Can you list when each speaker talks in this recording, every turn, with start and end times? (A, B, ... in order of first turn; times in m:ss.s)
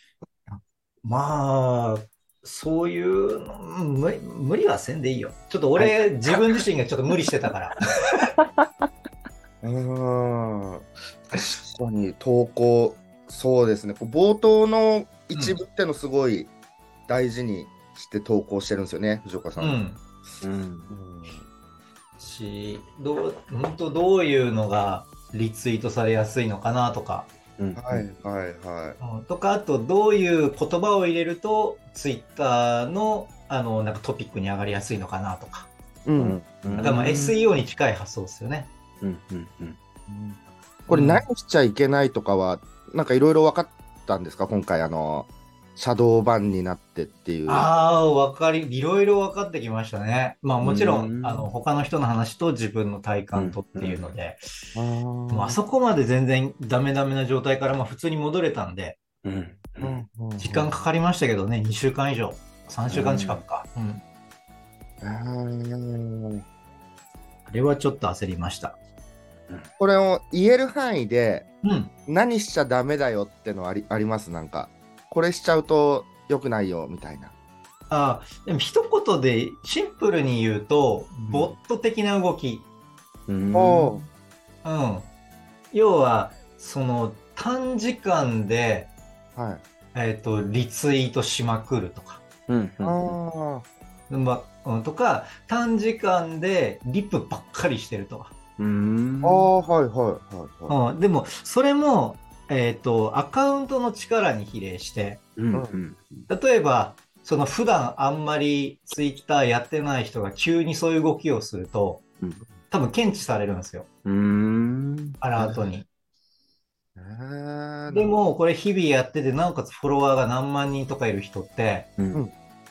0:00.5-0:08.3 A
0:05.8-0:06.0 B
0:09.6-0:16.5 C
0:15.3-0:15.6 A
0:17.1-0:20.4 C
0:19.6-0:20.0 A
0:20.4-0:20.9 B
0:20.9-0:21.5 C
0:22.2-0:27.3 A
0:27.6-0:28.0 B
0:27.8-0:29.0 C
0:29.0-0:35.7 A
0:36.0-0:36.9 C
0:36.2-0:37.4 B
0:36.8-0:38.7 A
0:39.0-0:39.8 B
0:40.1-0:47.7 C
0:40.9-0:41.3 A
0:47.5-0:54.4 A
0:50.6-0:51.5 B
0:53.4-0:54.1 B
0:54.8-0:55.6 C
0:55.3-0:59.0 A
0:59.2-1:00.0 B
0:59.8-1:00.8 C
1:00.4-1:04.0 A
1:02.9-1:03.4 B
1:05.0-1:06.4 C
1:07.5-1:08.8 A
1:09.8-1:11.5 C
1:11.6-1:11.9 A
1:12.1-1:17.3 C
1:17.9-1:22.7 A
1:23.3-1:24.0 B
1:23.5-1:24.0 C
1:24.6-1:25.1 A
1:25.7-1:28.9 A
1:29.4-1:29.6 C
1:29.9-1:32.2 A
1:32.5-1:33.2 B
1:32.8-1:33.7 C
1:34.1-1:38.4 A
1:38.6-1:39.5 B
1:39.2-1:40.8 C
1:40.7-1:45.2 A
1:45.4-1:46.3 B
1:46.3-1:52.0 A
1:52.7-1:53.9 A
1:54.0-1:55.2 B
1:55.2-1:55.9 A
1:55.4-1:55.7 C
1:57.0-1:58.1 C
1:57.9-2:01.9 A